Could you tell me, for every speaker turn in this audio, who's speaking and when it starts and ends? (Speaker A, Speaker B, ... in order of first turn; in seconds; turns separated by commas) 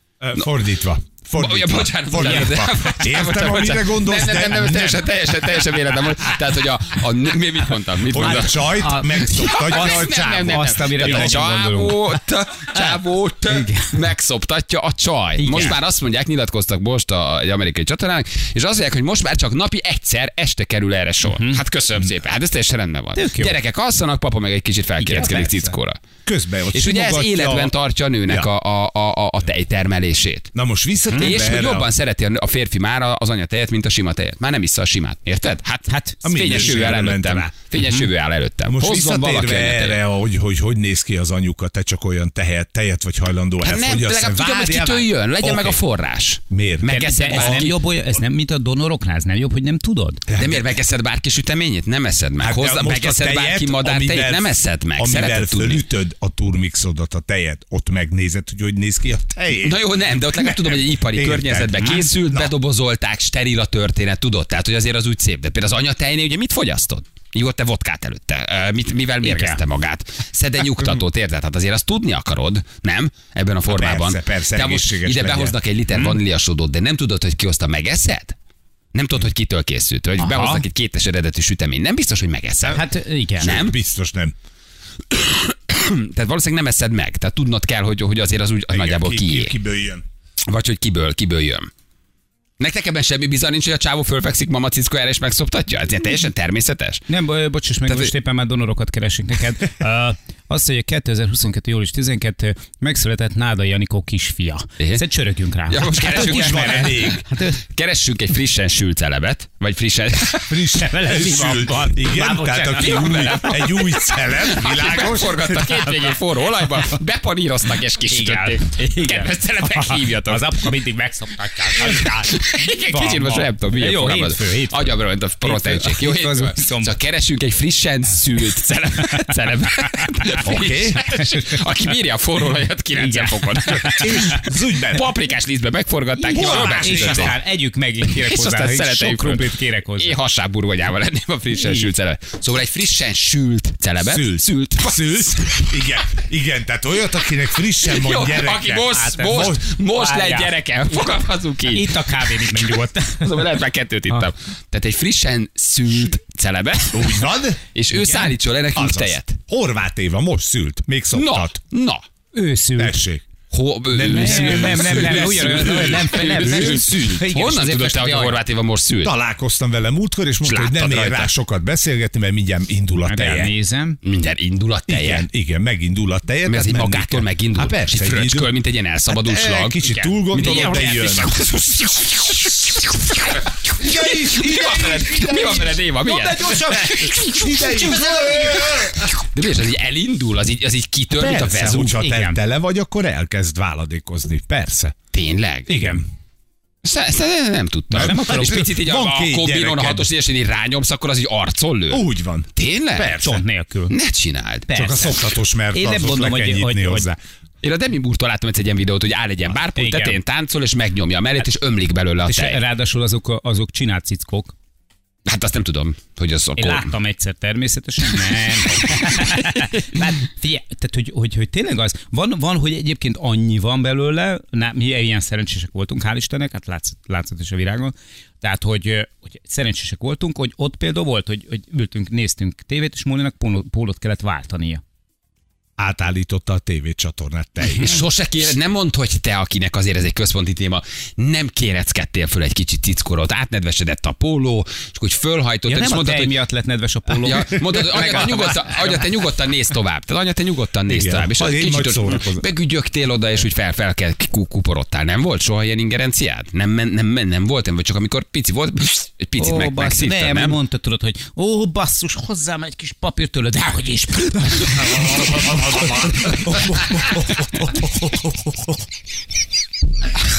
Speaker A: 0.2-5.1, Speaker B: 1.4-8.7, Speaker C: 2.2-2.6, Speaker A: 8.1-11.5, Speaker C: 8.2-12.2, Speaker B: 9.2-26.0, Speaker C: 12.7-14.0, Speaker C: 15.4-15.8, Speaker C: 21.2-21.6, Speaker C: 23.1-23.6, Speaker C: 25.0-25.4, Speaker A: 25.2-25.7, Speaker A: 26.2-27.7, Speaker B: 26.7-30.5, Speaker A: 30.6-31.9, Speaker B: 31.2-40.0, Speaker C: 35.9-37.0, Speaker A: 36.2-37.5, Speaker C: 37.8-38.1, Speaker A: 38.7-45.8, Speaker B: 43.6-47.8, Speaker A: 46.5-47.7, Speaker C: 46.9-50.2, Speaker A: 50.3-50.6, Speaker B: 50.3-55.9, Speaker A: 52.4-62.5, Speaker B: 59.6-78.4, Speaker C: 61.8-62.1, Speaker C: 69.2-69.6, Speaker A: 73.7-75.6, Speaker C: 75.9-76.2, Speaker B: 78.9-82.8, Speaker C: 80.2-80.7, Speaker C: 82.6-83.5, Speaker A: 83.4-84.3, Speaker B: 83.4-83.8, Speaker B: 85.1-89.5, Speaker A: 88.7-90.0, Speaker B: 90.5-91.7, Speaker B: 92.6-97.0, Speaker C: 97.1-107.6, Speaker B: 97.9-98.1, Speaker B: 105.7-107.1, Speaker A: 106.0-107.2, Speaker B: 107.7-110.5, Speaker A: 110.4-116.2, Speaker C: 110.8-113.6, Speaker B: 112.8-120.7, Speaker C: 118.1-122.3, Speaker B: 121.8-137.4, Speaker C: 122.9-127.0, Speaker A: 130.4-131.0, Speaker C: 133.0-134.2, Speaker A: 134.0-135.1, Speaker C: 136.2-140.2, Speaker A: 136.4-137.3, Speaker B: 138.1-145.7, Speaker C: 141.5-141.9, Speaker A: 144.0-149.8, Speaker B: 147.8-159.4, Speaker C: 148.9-151.1, Speaker C: 151.7-153.5, Speaker A: 156.9-157.6, Speaker A: 158.7-161.6, Speaker B: 161.1-162.0, Speaker C: 162.3-163.0, Speaker A: 162.8-163.2, Speaker B: 163.5-169.2, Speaker A: 163.9-166.8, Speaker C: 164.1-168.4, Speaker A: 169.0-173.5, Speaker B: 170.4-171.3, Speaker C: 173.1-174.0, Speaker B: 174.0-175.3, Speaker A: 174.9-178.6, Speaker B: 176.4-182.9, Speaker A: 179.1-181.3, Speaker C: 179.8-181.6, Speaker A: 183.8-189.1, Speaker B: 183.8-187.2, Speaker C: 186.1-189.0, Speaker B: 189.2-192.0, Speaker A: 191.1-194.9, Speaker C: 192.0-192.4, Speaker B: 195.1-195.7, Speaker A: 195.7-196.0, Speaker C: 195.7-196.0, Speaker B: 196.8-203.2, Speaker A: 197.9-200.1, Speaker C: 198.0-198.8, Speaker A: 201.9-203.4, Speaker C: 203.2-203.9, Speaker B: 203.9-204.7, Speaker C: 204.7-207.1, Speaker A: 204.7-207.2, Speaker B: 207.6-212.6, Speaker C: 209.8-210.2, Speaker C: 212.2-214.6, Speaker B: 215.3-216.9, Speaker C: 216.6-234.8, Speaker A: 235.8-238.0, Speaker B: 237.8-246.3, Speaker C: 245.7-249.2, Speaker B: 247.2-260.6, Speaker A: 250.9-252.4, Speaker C: 259.4-268.6